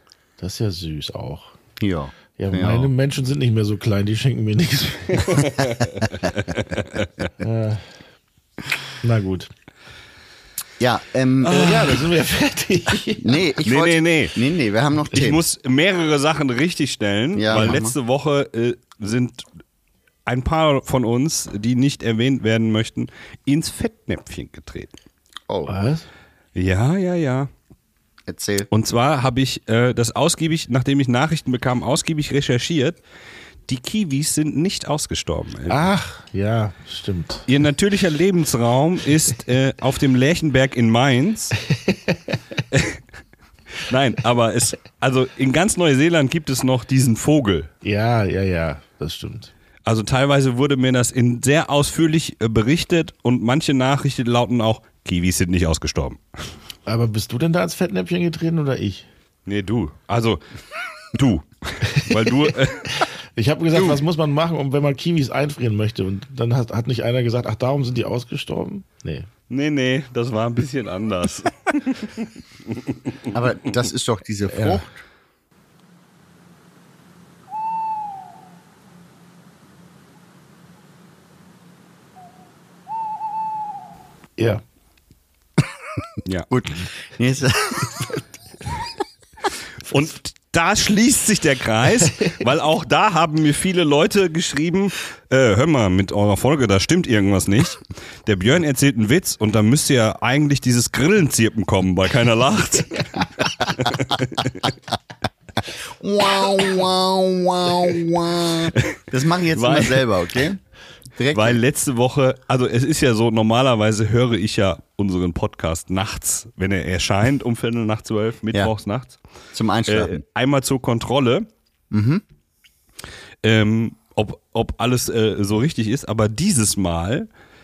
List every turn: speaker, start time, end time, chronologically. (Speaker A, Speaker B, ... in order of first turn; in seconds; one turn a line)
Speaker A: 0.4-1.5
Speaker B: 1.8-2.9
Speaker A: 2.4-5.6
Speaker C: 5.4-7.1
Speaker A: 7.4-7.9
Speaker A: 9.0-9.5
Speaker B: 10.8-11.9
Speaker A: 11.5-13.4
Speaker B: 13.2-15.4
Speaker C: 13.6-14.3
Speaker C: 15.1-19.4
Speaker B: 17.4-17.9
Speaker C: 20.3-25.0
Speaker B: 25.5-25.8
Speaker A: 25.7-26.1
Speaker C: 26.6-27.5
Speaker B: 28.3-28.7
Speaker C: 28.7-33.0
Speaker C: 33.7-35.8
Speaker A: 35.7-37.5
Speaker C: 37.5-41.6
Speaker A: 41.8-42.4
Speaker C: 42.7-43.0
Speaker C: 43.8-47.7
Speaker A: 47.8-49.5
Speaker C: 49.9-56.2
Speaker A: 56.9-59.1
Speaker C: 59.5-60.4
Speaker C: 61.1-63.0
Speaker A: 62.0-62.5
Speaker A: 63.0-69.3
Speaker C: 63.8-64.0
Speaker C: 69.5-72.9
Speaker B: 73.3-75.0
Speaker A: 84.4-84.6
Speaker B: 86.5-88.1
Speaker C: 89.9-104.7
Speaker B: 106.0-110.6
Speaker C: 109.5-110.1
Speaker B: 111.2-111.6
Speaker C: 111.3-119.2
Speaker B: 119.5-120.2
Speaker C: 119.9-121.5
Speaker B: 121.9-122.2
Speaker C: 123.4-127.3